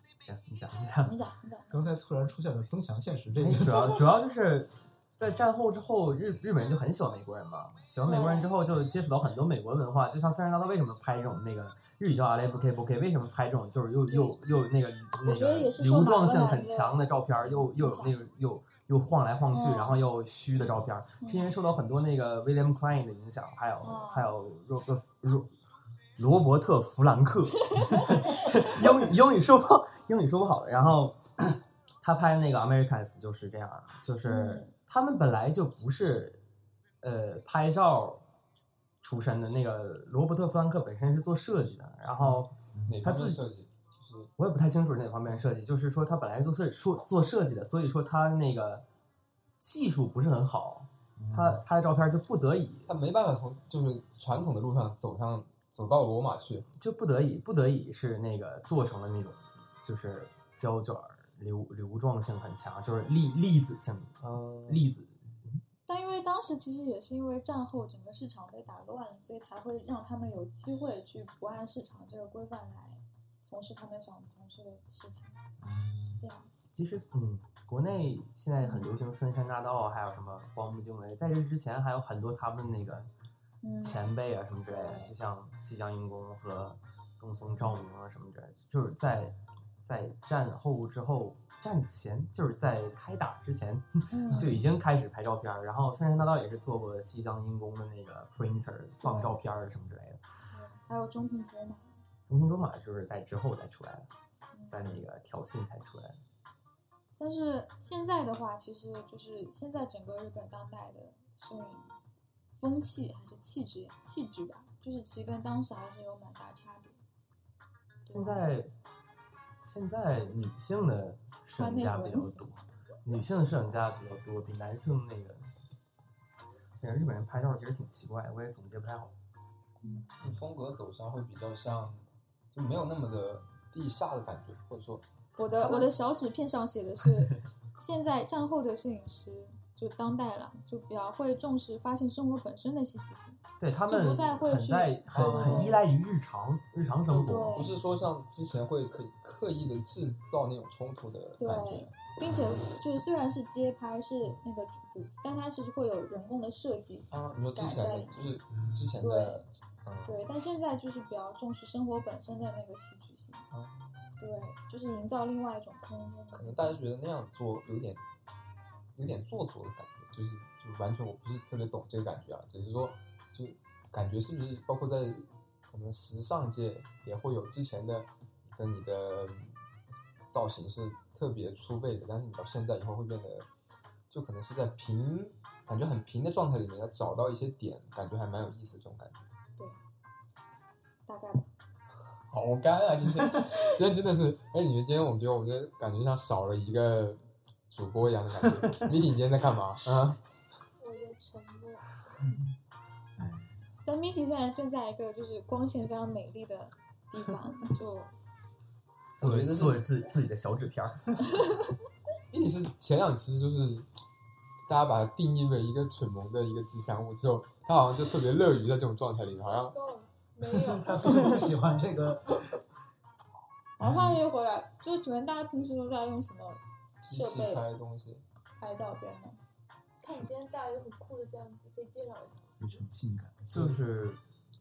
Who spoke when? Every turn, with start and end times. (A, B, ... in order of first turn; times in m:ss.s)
0:00.2-0:01.1 A
0:01.0-0:01.8 B
0:01.7-0:04.1 C
0:03.4-0:25.5 A
0:08.1-0:08.5 B
0:14.1-0:14.4 B
0:15.2-0:18.2 B
0:19.5-0:20.0 B
0:21.2-0:21.6 B
0:23.8-0:24.3 B
0:26.2-0:31.3 A
0:27.8-0:28.4 B
0:32.0-0:36.4 A
0:34.3-0:34.7 B
0:37.0-0:38.2 A
0:39.0-0:42.5 A
0:42.2-0:44.3 D
0:42.7-0:43.0 C
0:43.0-0:43.4 A
0:44.4-0:48.8 A
0:49.6-0:52.9 A
0:51.2-0:51.6 C
0:52.9-0:56.7 D
0:56.8-1:05.6 A
1:04.2-1:04.9 D
1:05.9-1:15.4 B
1:15.6-1:16.2 C
1:16.0-1:16.5 B
1:16.8-1:23.1 A
1:18.6-1:19.0 B
1:23.6-1:24.1 B
1:23.8-1:40.2 A
1:24.7-1:25.1 B
1:34.1-1:34.6 B
1:39.0-1:39.4 B
1:40.5-1:42.0 B
1:42.3-1:44.1 A
1:44.5-1:45.0 B
1:44.7-1:46.2 A
1:47.2-1:52.0 B
1:52.6-1:57.0 B
1:58.1-1:58.5 B
1:58.1-1:58.7 A
1:59.6-2:05.5 A
2:01.5-2:02.5 B
2:06.8-2:09.1 A
2:09.8-2:10.2 B
2:10.2-2:15.0 D
2:15.4-2:25.8 B
2:23.6-2:27.6 A
2:25.1-2:25.8 D
2:27.1-2:32.0 D
2:27.2-2:27.8 B
2:31.4-2:38.4 B
2:37.1-2:40.3 D
2:38.6-2:38.9 C
2:39.0-2:39.5 B
2:40.0-2:43.5 B
2:43.5-2:44.2 D
2:44.2-2:46.8 B
2:46.3-2:48.0 D
2:49.0-2:59.6 D
3:00.3-3:03.5 D
3:04.1-3:09.3 D
3:11.1-3:11.5 B
3:12.3-3:20.2 D
3:18.4-3:18.9 C
3:20.8-3:21.9 E
3:23.2-3:23.6 C
3:23.8-3:28.1 B
3:29.2-3:29.9 D
3:29.2-3:31.2 A
3:31.3-3:31.7 B
3:32.3-3:33.9 D
3:34.7-3:39.8 D
3:39.5-3:41.1 E
3:40.5-3:42.6 C
3:43.8-3:47.7 B
3:43.8-3:44.2 C
3:47.0-3:48.2 D
3:48.6-3:49.4 B
3:50.0-3:52.6 E
3:52.6-3:53.8 C
3:53.5-3:54.2 A